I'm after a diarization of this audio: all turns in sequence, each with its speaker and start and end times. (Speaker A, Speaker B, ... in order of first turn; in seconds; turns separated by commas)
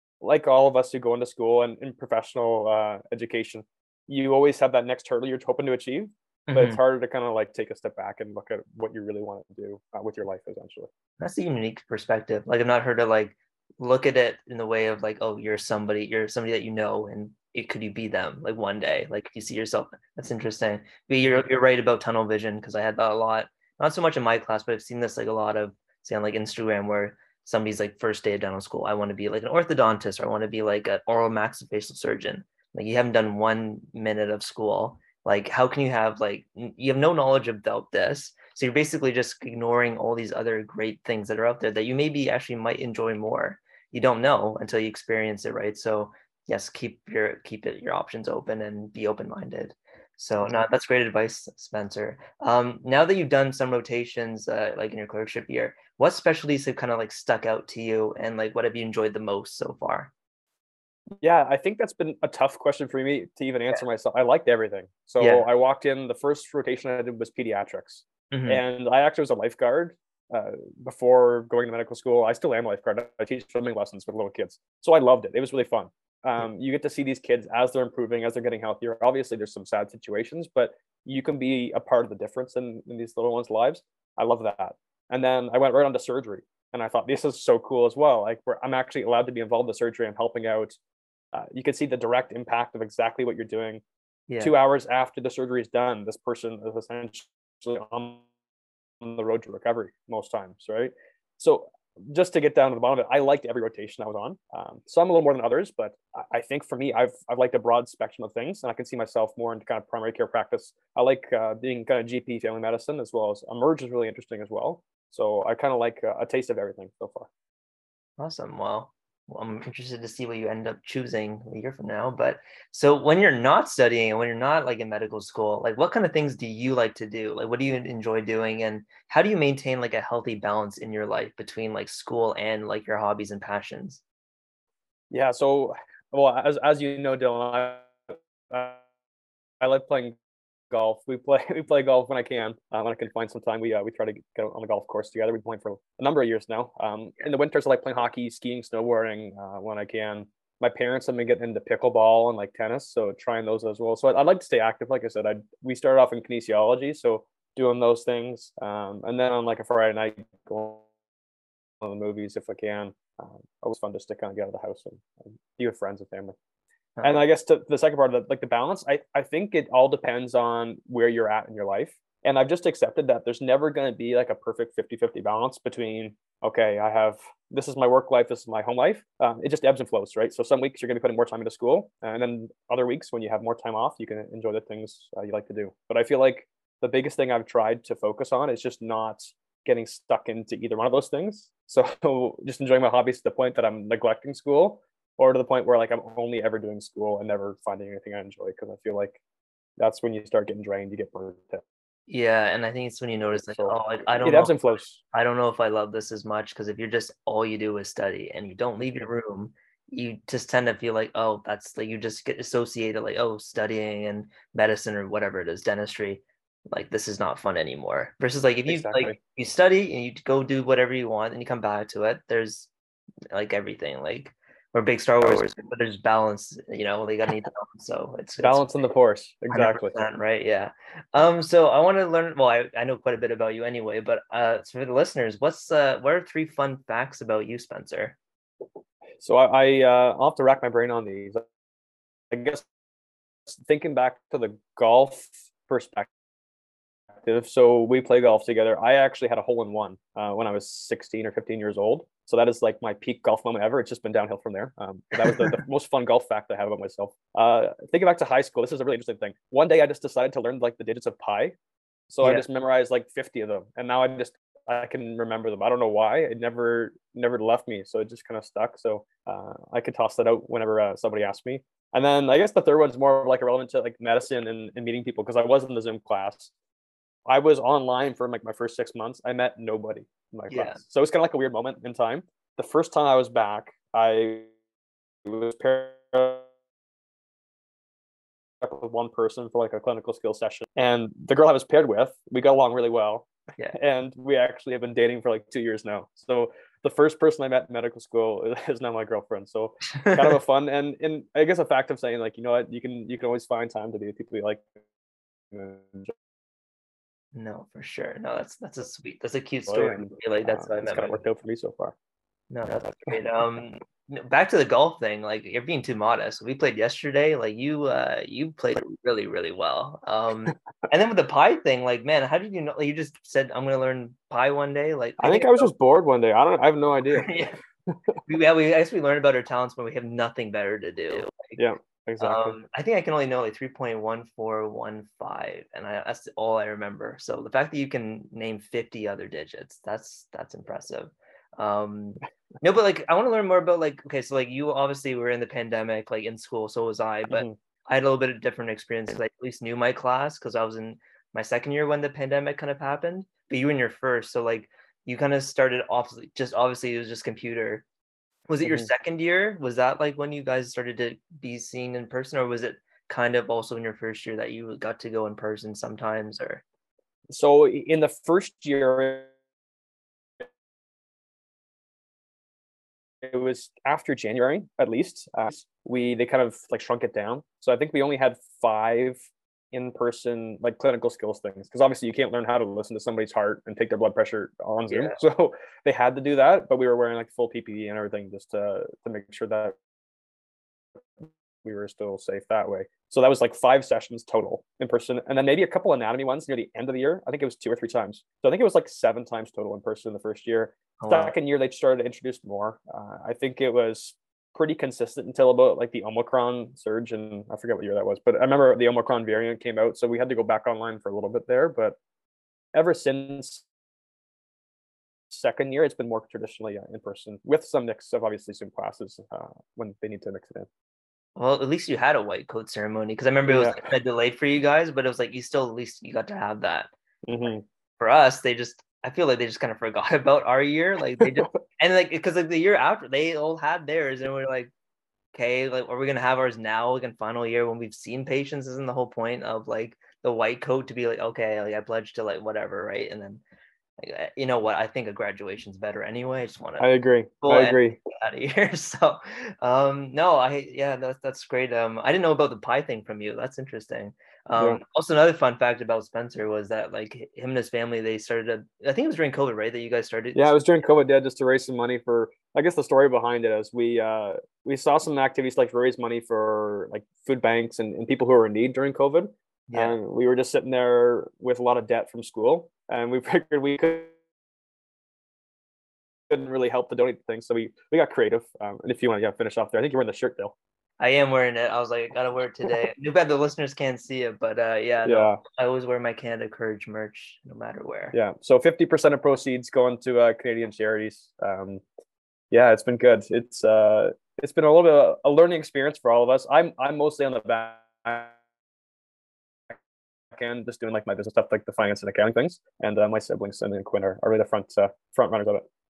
Speaker A: 0.2-10.9, Speaker B: 6.5-6.8, Speaker B: 11.2-60.1, Speaker A: 50.4-50.7, Speaker A: 61.2-90.8, Speaker B: 65.2-65.5, Speaker B: 68.3-68.6, Speaker A: 91.3-93.8, Speaker B: 94.3-94.5, Speaker A: 94.4-98.2, Speaker A: 99.0-117.3, Speaker B: 118.2-134.0, Speaker A: 135.1-138.8, Speaker A: 139.6-140.2, Speaker A: 140.7-160.9, Speaker A: 161.8-166.3, Speaker B: 167.0-167.2, Speaker A: 167.0-199.2, Speaker A: 199.8-201.6, Speaker B: 202.1-222.7, Speaker A: 203.3-205.0, Speaker A: 218.7-219.2, Speaker B: 223.3-228.7, Speaker A: 225.2-225.4, Speaker A: 228.4-230.0, Speaker B: 229.5-238.2, Speaker A: 239.2-241.4, Speaker A: 242.3-242.6, Speaker A: 243.5-246.1, Speaker A: 247.2-261.5, Speaker B: 255.2-255.5, Speaker A: 262.1-276.5, Speaker A: 277.3-284.5, Speaker B: 280.5-280.8, Speaker A: 285.2-286.5, Speaker A: 288.6-304.7, Speaker B: 300.0-300.3, Speaker A: 305.5-306.1, Speaker B: 307.3-311.3, Speaker A: 309.7-311.9, Speaker B: 312.5-325.7, Speaker A: 312.7-313.1, Speaker A: 325.2-328.2, Speaker B: 327.1-327.6, Speaker B: 328.3-331.6, Speaker A: 331.6-332.6, Speaker B: 332.2-357.9, Speaker A: 347.3-347.5, Speaker B: 358.5-366.6, Speaker A: 358.6-358.9, Speaker A: 367.3-369.3, Speaker A: 373.2-389.7, Speaker B: 384.9-385.2, Speaker A: 391.2-412.0, Speaker B: 401.0-401.3, Speaker A: 412.7-413.6, Speaker A: 415.3-420.7, Speaker B: 421.4-426.9, Speaker A: 423.4-423.9, Speaker A: 427.2-427.6, Speaker B: 427.4-434.7, Speaker A: 431.2-431.5, Speaker B: 435.3-443.4, Speaker B: 444.0-446.9, Speaker A: 446.8-448.0, Speaker B: 447.4-460.6, Speaker A: 454.6-454.8, Speaker A: 460.3-474.1, Speaker B: 469.7-470.0, Speaker A: 476.3-480.5, Speaker B: 481.0-488.1, Speaker A: 485.0-485.4, Speaker A: 488.1-491.8, Speaker A: 492.5-498.3, Speaker A: 500.3-505.6